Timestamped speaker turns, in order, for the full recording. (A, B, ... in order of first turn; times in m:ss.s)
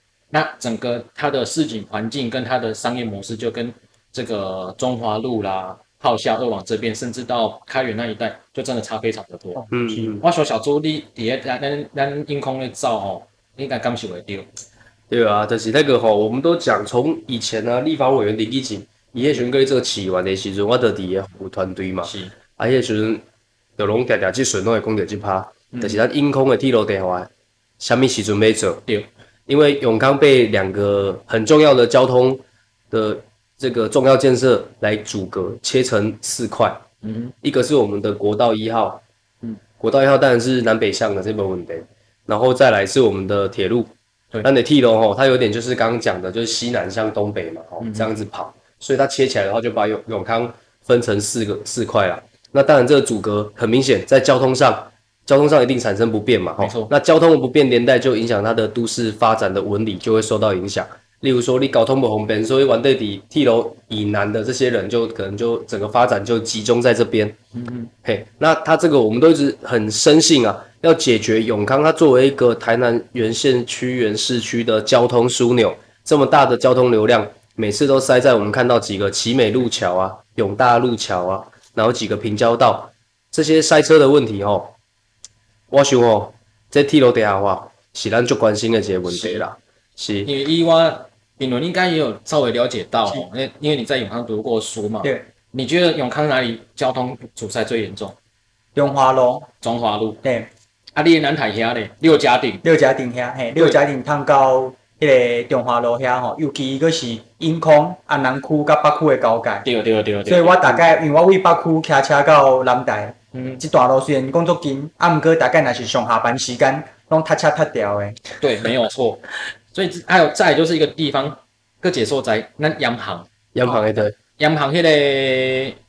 0:00.3-0:09.7 A
0:09.5-0:10.1 B
0:09.7-0:10.2 C
0:10.2-0:14.4 A
0:15.1-0:23.2 C
0:22.0-0:22.3 A
0:23.8-0:27.3 C
0:25.7-0:26.0 A
0:27.8-0:28.8 C
0:29.5-0:36.8 C
0:37.0-0:37.3 A
0:37.4-0:39.0 C
0:39.8-0:43.9 C
0:44.4-1:07.4 C
0:47.8-0:48.1 A
0:56.6-0:56.9 A
1:07.5-1:07.9 A
1:08.0-1:24.7 C
1:25.7-1:30.3 C
1:29.1-1:29.4 A
1:30.2-1:38.2 A
1:38.7-1:39.5 B
1:39.6-1:40.2 A
1:40.2-1:40.5 B
1:40.9-1:42.6 A
1:42.6-1:49.6 B
1:43.5-1:43.8 A
1:49.6-1:50.8 A
1:50.2-1:58.2 B
1:53.3-1:53.6 A
1:58.4-1:59.2 A
1:59.7-2:05.8 A
2:03.5-2:04.1 C